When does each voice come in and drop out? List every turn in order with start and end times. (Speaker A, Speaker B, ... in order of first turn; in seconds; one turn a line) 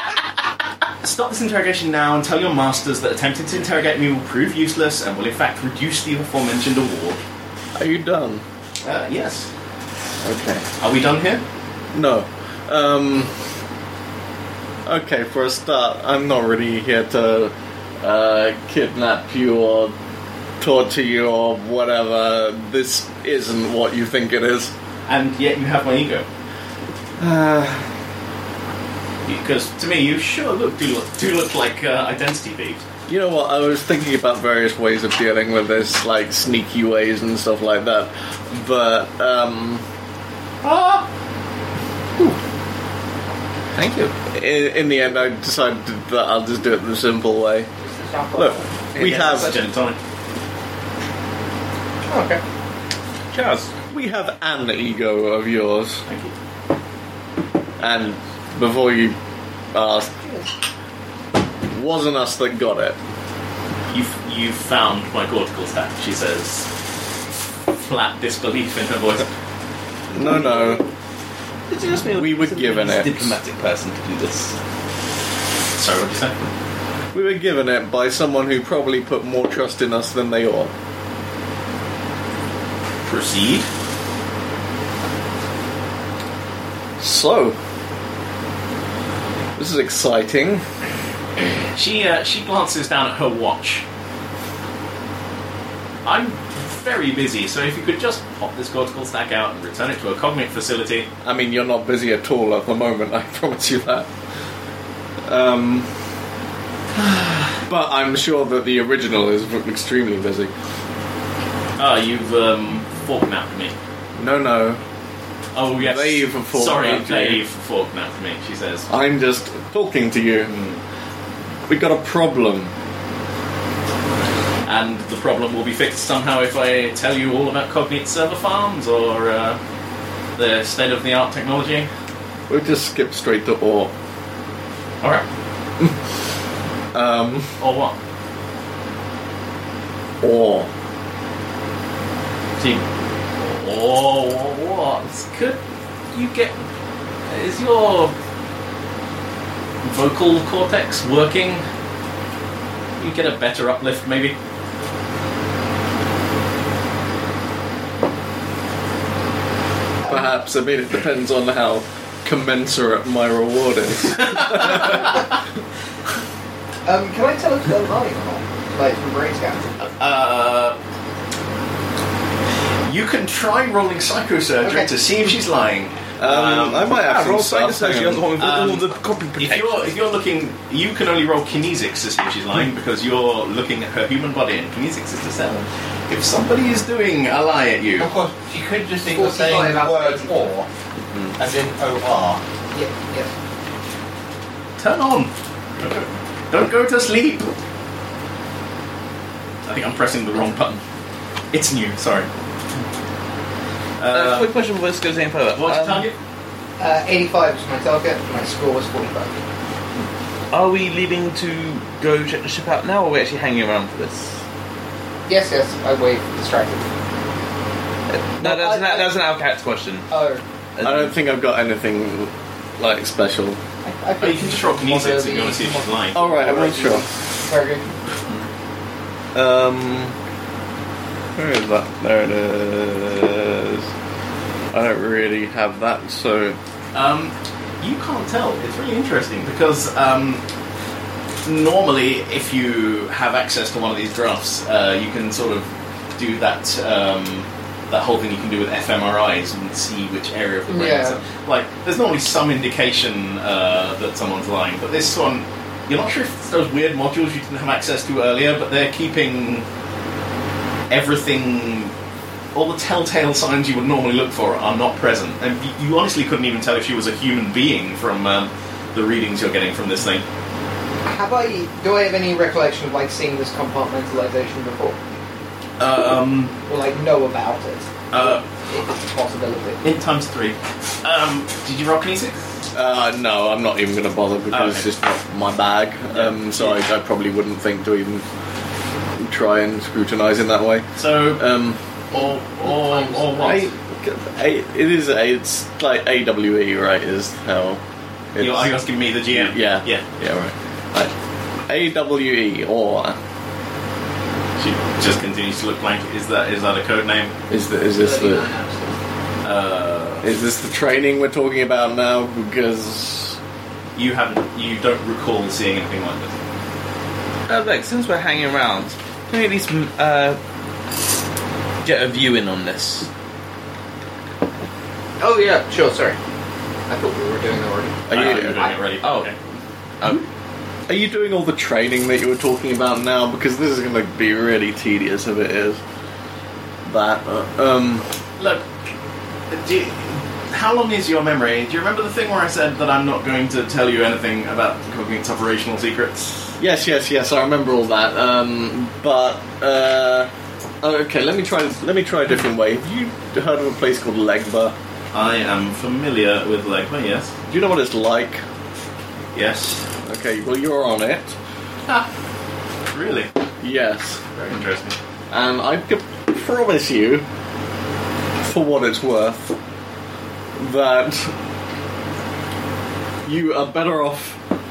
Speaker A: 1.0-7.2
Speaker B: 7.8-8.4
Speaker A: 8.8-9.5
Speaker B: 10.2-10.7
Speaker A: 10.8-11.4
Speaker B: 11.9-13.3
Speaker B: 14.8-19.9
Speaker B: 20.6-24.7
Speaker A: 25.1-26.3
Speaker B: 27.2-27.9
Speaker A: 29.2-32.8
Speaker B: 33.1-39.8
Speaker A: 40.6-41.0
Speaker C: 43.8-44.1
Speaker B: 44.3-47.7
Speaker D: 47.8-49.5
Speaker B: 48.3-49.5
Speaker A: 48.9-50.0
Speaker D: 52.1-52.4
Speaker C: 53.3-53.7
Speaker B: 53.9-56.0
Speaker A: 56.1-56.3
Speaker B: 57.8-59.2
Speaker B: 59.7-60.1
Speaker D: 60.2-60.5
Speaker B: 61.7-63.0
Speaker A: 63.9-66.7
Speaker A: 67.7-69.3
Speaker B: 70.1-70.8
Speaker C: 71.7-74.5
Speaker B: 72.1-73.4
Speaker A: 75.7-76.5
Speaker B: 77.1-80.7
Speaker A: 83.0-83.7
Speaker B: 87.0-87.6
Speaker B: 89.6-90.6
Speaker A: 91.7-93.8
Speaker A: 96.0-101.1
Speaker B: 101.2-104.1
Speaker B: 105.2-105.9
Speaker B: 107.6-110.5
Speaker A: 111.8-113.7
Speaker B: 114.2-114.8
Speaker A: 115.5-118.9
Speaker B: 115.8-117.4
Speaker B: 118.9-120.5
Speaker A: 120.5-120.8
Speaker B: 121.7-122.7
Speaker A: 124.6-129.6
Speaker A: 130.3-131.9
Speaker B: 132.5-133.9
Speaker B: 136.9-137.6
Speaker A: 137.6-137.9
Speaker B: 140.2-140.7
Speaker A: 142.6-142.8
Speaker A: 143.4-145.6
Speaker A: 146.1-146.6
Speaker A: 147.2-148.1
Speaker A: 149.8-151.6
Speaker A: 153.0-154.3
Speaker D: 160.0-160.3
Speaker B: 160.1-165.1
Speaker A: 164.3-164.7
Speaker D: 166.8-169.7
Speaker A: 169.8-170.8
Speaker A: 172.8-176.9
Speaker D: 174.6-174.9
Speaker B: 176.2-178.2
Speaker C: 176.9-179.9
Speaker A: 178.4-188.1
Speaker E: 188.0-190.7
Speaker D: 189.1-190.5
Speaker E: 191.3-192.4
Speaker D: 192.7-193.3
Speaker A: 194.8-197.5
Speaker A: 199.7-200.8
Speaker A: 201.5-202.3
Speaker A: 204.0-204.5
Speaker C: 204.1-206.1
Speaker A: 205.5-206.1
Speaker D: 206.8-209.4
Speaker C: 210.5-214.4
Speaker D: 215.3-216.9
Speaker C: 218.1-220.1
Speaker D: 218.4-219.1
Speaker D: 220.1-220.4
Speaker C: 220.8-221.1
Speaker B: 220.8-223.6
Speaker D: 223.8-227.8
Speaker A: 224.2-226.2
Speaker B: 226.1-227.1
Speaker B: 229.3-230.1
Speaker B: 231.3-233.9
Speaker B: 234.7-236.6
Speaker A: 236.9-240.4
Speaker A: 241.4-259.6
Speaker D: 250.7-251.2
Speaker A: 260.9-261.9
Speaker A: 262.5-270.2
Speaker D: 271.0-275.0
Speaker A: 275.8-276.6
Speaker D: 276.6-279.8
Speaker A: 278.1-278.4
Speaker A: 279.8-282.4
Speaker B: 282.7-288.2
Speaker A: 284.5-284.9
Speaker A: 286.1-286.8
Speaker B: 289.2-291.8
Speaker A: 290.9-291.5
Speaker A: 292.1-293.6
Speaker D: 292.6-293.6
Speaker B: 293.4-297.8
Speaker B: 298.3-298.7
Speaker A: 298.4-300.0
Speaker B: 299.3-301.1
Speaker B: 301.7-303.2
Speaker A: 304.6-307.3
Speaker B: 307.5-308.5
Speaker D: 307.9-309.0
Speaker A: 309.4-310.3
Speaker B: 310.2-313.4
Speaker A: 313.9-316.3
Speaker C: 317.5-320.4
Speaker C: 321.8-323.1
Speaker D: 325.2-326.2
Speaker D: 326.9-328.4
Speaker B: 328.1-328.6
Speaker A: 328.1-329.4
Speaker C: 329.0-329.3
Speaker B: 330.9-335.8
Speaker B: 336.8-338.1
Speaker A: 338.4-338.6
Speaker A: 339.5-346.5
Speaker B: 346.6-350.3
Speaker B: 350.8-354.7
Speaker A: 355.1-357.3
Speaker B: 357.5-358.4
Speaker A: 359.3-359.8
Speaker B: 360.0-361.4
Speaker A: 362.9-363.3
Speaker B: 363.6-364.2
Speaker A: 364.3-365.0
Speaker B: 365.3-367.2
Speaker B: 368.4-369.6
Speaker B: 370.6-371.3
Speaker B: 373.2-374.4